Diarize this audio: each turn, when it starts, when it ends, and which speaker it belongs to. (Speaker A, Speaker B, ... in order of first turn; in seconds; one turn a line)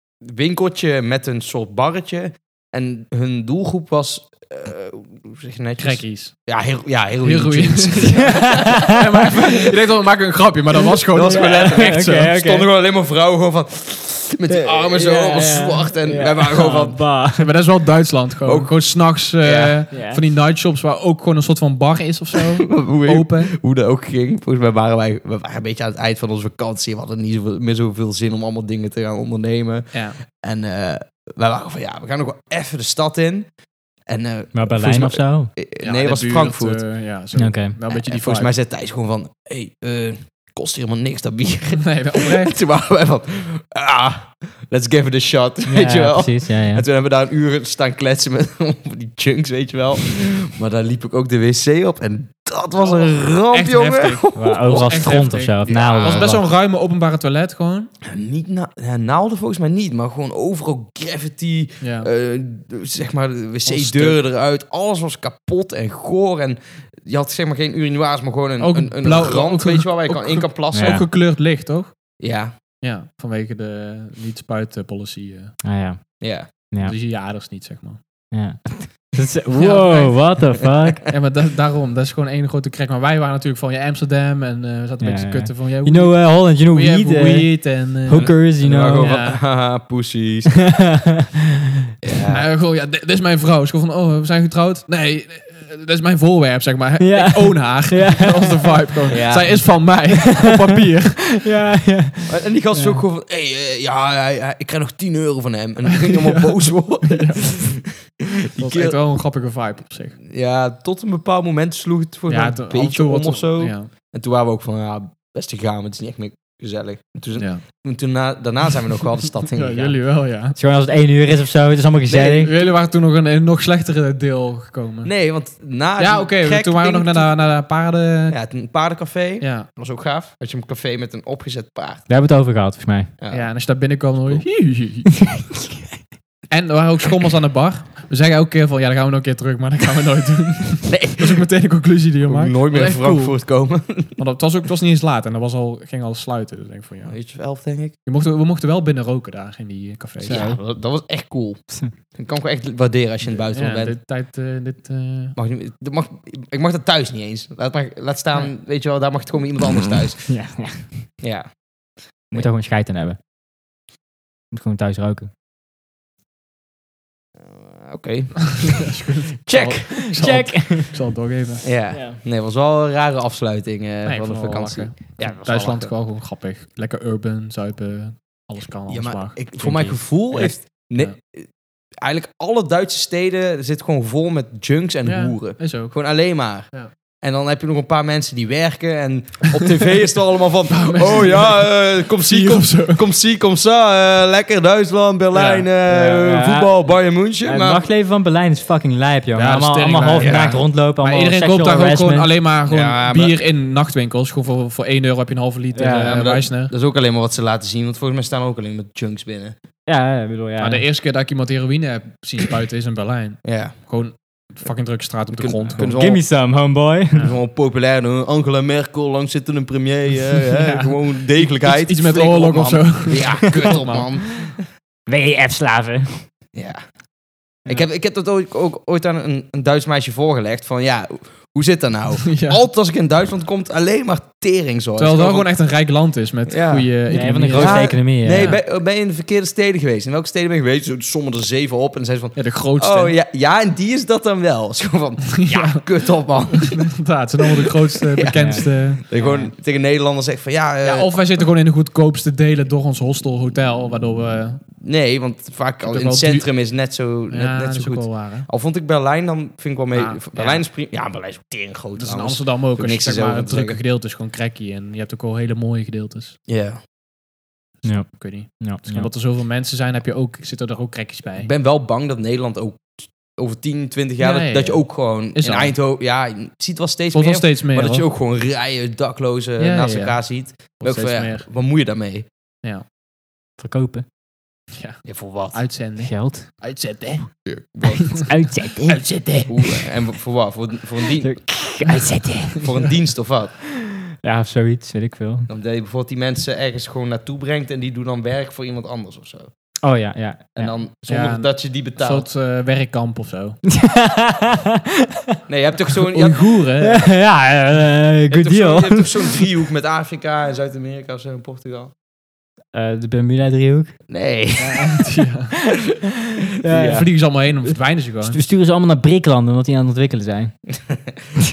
Speaker A: 0.2-8.5
Speaker B: 5.8-6.5
Speaker B: 7.2-12.3
Speaker C: 8.2-8.9
Speaker A: 11.1-17.0
Speaker C: 11.3-12.7
Speaker C: 14.5-17.5
Speaker B: 17.4-23.6
Speaker A: 18.4-18.8
Speaker A: 19.4-19.8
Speaker C: 19.9-20.2
Speaker A: 22.6-33.5
Speaker B: 29.9-30.2
Speaker A: 34.1-36.9
Speaker C: 34.5-35.5
Speaker B: 35.8-38.5
Speaker C: 37.3-37.8
Speaker A: 37.9-56.4
Speaker B: 41.7-42.6
Speaker C: 45.7-46.9
Speaker B: 52.8-57.9
Speaker C: 54.4-56.5
Speaker A: 58.0-71.1
Speaker B: 61.8-62.1
Speaker B: 63.6-64.2
Speaker B: 68.6-72.0
Speaker C: 70.7-71.1
Speaker A: 72.2-72.5
Speaker B: 72.8-75.6
Speaker C: 75.6-77.0
Speaker A: 76.2-76.5
Speaker B: 76.8-78.0
Speaker C: 78.3-81.0
Speaker B: 79.5-80.4
Speaker B: 81.1-89.4
Speaker C: 85.0-89.2
Speaker A: 88.1-90.6
Speaker C: 90.7-91.3
Speaker A: 92.0-92.5
Speaker B: 92.3-101.5
Speaker C: 97.0-99.2
Speaker A: 99.1-99.6
Speaker C: 101.3-102.4
Speaker A: 102.3-109.0
Speaker B: 102.7-103.0
Speaker B: 106.0-107.8
Speaker B: 108.6-110.2
Speaker A: 110.2-120.0
Speaker B: 112.3-113.9
Speaker B: 117.4-117.6
Speaker B: 119.5-120.6
Speaker C: 120.5-122.5
Speaker A: 122.1-122.4
Speaker B: 122.1-125.2
Speaker A: 125.0-127.3
Speaker B: 126.0-128.4
Speaker A: 128.3-132.1
Speaker B: 129.4-129.7
Speaker C: 132.1-133.1
Speaker A: 133.2-133.5
Speaker B: 133.3-135.3
Speaker B: 136.5-143.5
Speaker A: 140.9-141.4
Speaker A: 142.3-144.2
Speaker B: 144.2-147.2
Speaker A: 147.1-147.9
Speaker B: 148.1-150.4
Speaker A: 150.2-153.9
Speaker C: 150.3-150.6
Speaker B: 153.3-155.4
Speaker A: 155.4-160.3
Speaker C: 160.3-161.1
Speaker A: 161.2-161.5
Speaker C: 162.3-163.2
Speaker C: 164.5-165.3
Speaker A: 167.5-168.8
Speaker B: 168.6-171.7
Speaker A: 169.5-170.1
Speaker C: 170.1-171.0
Speaker A: 171.6-175.9
Speaker C: 171.9-172.2
Speaker B: 174.1-181.2
Speaker A: 178.9-197.9
Speaker C: 179.6-179.9
Speaker B: 185.1-186.0
Speaker B: 190.7-193.0
Speaker B: 195.3-195.7
Speaker C: 195.9-202.3
Speaker B: 199.3-206.7
Speaker A: 200.2-200.6
Speaker A: 202.7-203.4
Speaker C: 205.7-206.2
Speaker A: 206.0-209.6
Speaker C: 209.9-210.9
Speaker B: 210.6-215.9
Speaker A: 213.4-213.8
Speaker A: 215.3-216.2
Speaker C: 215.8-217.3
Speaker A: 217.2-224.6
Speaker B: 220.4-224.1
Speaker C: 225.1-226.3
Speaker A: 226.5-226.8
Speaker A: 227.7-235.5
Speaker B: 232.3-232.6
Speaker B: 235.0-238.6
Speaker A: 236.5-246.9
Speaker C: 237.1-238.6
Speaker B: 242.4-243.2
Speaker B: 245.4-245.8
Speaker B: 246.6-249.2
Speaker A: 248.1-251.2
Speaker C: 248.3-249.5
Speaker B: 250.8-254.7
Speaker A: 254.8-263.8
Speaker B: 255.8-256.6
Speaker B: 257.3-258.5
Speaker B: 259.9-260.6
Speaker B: 262.0-266.4
Speaker A: 266.5-266.8
Speaker C: 267.8-269.1
Speaker B: 268.2-271.5
Speaker A: 271.4-282.3
Speaker B: 274.2-275.7
Speaker B: 277.1-278.1
Speaker B: 279.6-281.5
Speaker C: 283.6-284.1
Speaker B: 284.8-287.5
Speaker A: 285.1-285.6
Speaker C: 286.0-286.5
Speaker A: 287.4-288.3
Speaker C: 288.2-289.5
Speaker B: 288.9-289.4
Speaker A: 289.5-291.5
Speaker C: 291.2-292.7
Speaker A: 292.6-293.6
Speaker C: 294.1-295.5
Speaker A: 295.5-299.5
Speaker C: 299.8-300.8
Speaker A: 300.6-302.3
Speaker B: 301.1-303.6
Speaker C: 303.7-305.4
Speaker A: 305.5-306.4
Speaker B: 306.1-307.0
Speaker C: 306.8-309.4
Speaker A: 308.3-311.9
Speaker C: 312.7-314.0
Speaker A: 314.1-315.0
Speaker B: 314.6-315.6
Speaker C: 316.6-317.1
Speaker A: 316.7-317.1
Speaker B: 316.8-318.4
Speaker C: 318.2-320.6